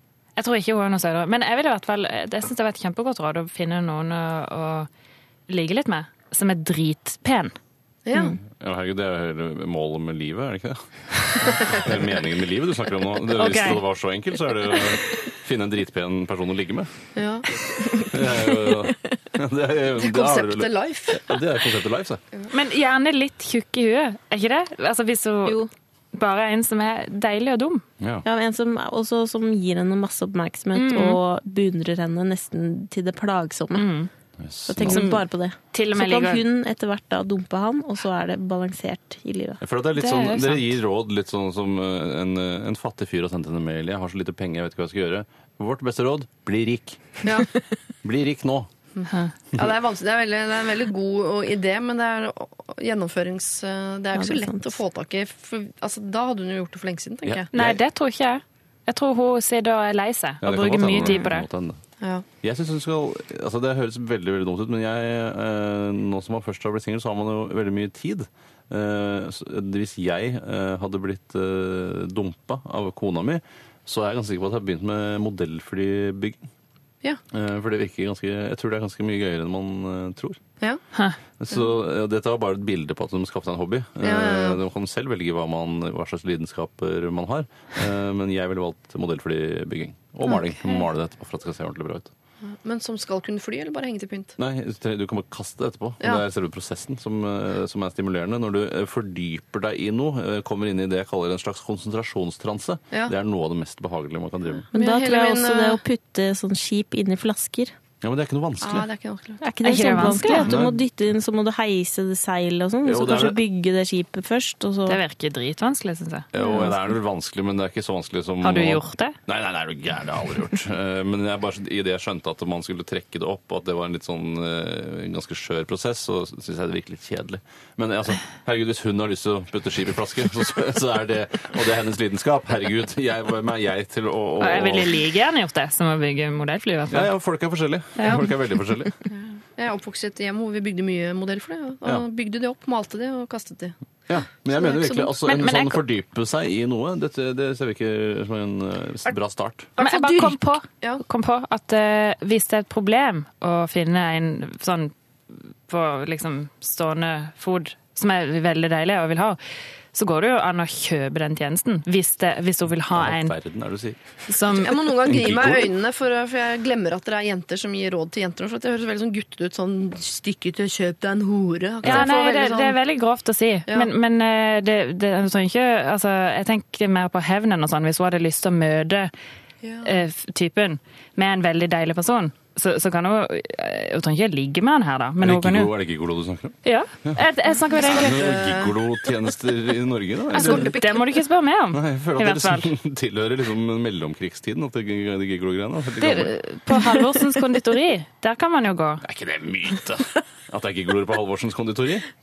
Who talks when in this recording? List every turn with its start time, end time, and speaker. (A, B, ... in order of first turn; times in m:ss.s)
0:00.4-0:04.9 A
0:05.5-0:07.5 A
0:08.0-0:08.4 B
0:08.5-0:16.9 C
0:13.3-0:13.8 A
0:17.1-0:17.5 B
0:18.0-0:22.2 C
0:20.0-0:21.4 B
0:22.5-0:25.6 A
0:26.1-0:27.8 A
0:28.0-0:28.2 C
0:28.2-0:34.0 D
0:30.7-0:31.2 A
0:33.7-0:34.1 A
0:34.4-0:35.1 C
0:34.7-0:39.6 D
0:34.8-0:36.4 A
0:39.6-0:47.0 C
0:40.0-0:40.7 A
0:47.2-0:47.5 B
0:48.0-0:48.7 C
0:49.0-0:57.5 B
0:54.1-0:54.7 D
0:57.2-0:57.8 C
0:57.5-1:01.5 A
1:00.4-1:01.8 C
1:02.4-1:16.4 C
1:17.3-1:20.4 C
1:21.4-1:32.1 C
1:24.0-1:24.6 B
1:32.4-1:34.4 B
1:34.4-1:44.7 C
1:44.7-1:47.7 D
1:44.7-1:45.8 B
1:48.0-1:48.9 C
1:48.6-1:50.1 B
1:49.4-1:55.0 D
1:49.6-1:50.6 A
1:50.4-1:50.8 C
1:52.8-1:53.4 C
1:54.8-1:56.3 A
1:56.3-2:15.0 C
1:56.4-1:56.8 D
1:58.4-1:59.2 A
2:14.4-2:17.1 A
2:16.9-2:18.9 C
2:18.0-2:18.3 A
2:19.1-2:23.7 B
2:24.1-2:29.7 C
2:24.6-2:25.1 B
2:25.2-2:25.8 A
2:29.7-2:31.0 B
2:29.8-2:39.4 A
2:39.9-2:43.3 A
2:42.9-2:44.0 C
2:44.3-2:44.9 A
2:44.5-2:52.8 B
2:45.0-2:45.7 C
2:51.8-2:52.1 C
2:51.8-2:59.1 A
2:59.6-3:00.0 B
2:59.8-3:05.7 A
3:05.2-3:07.2 C
3:06.6-3:08.3 A
3:07.8-3:08.7 B
3:07.8-3:10.8 C
3:10.3-3:11.2 B
3:10.3-3:12.7 A
3:11.7-3:16.4 C
3:16.0-3:19.0 A
3:19.0-3:22.1 C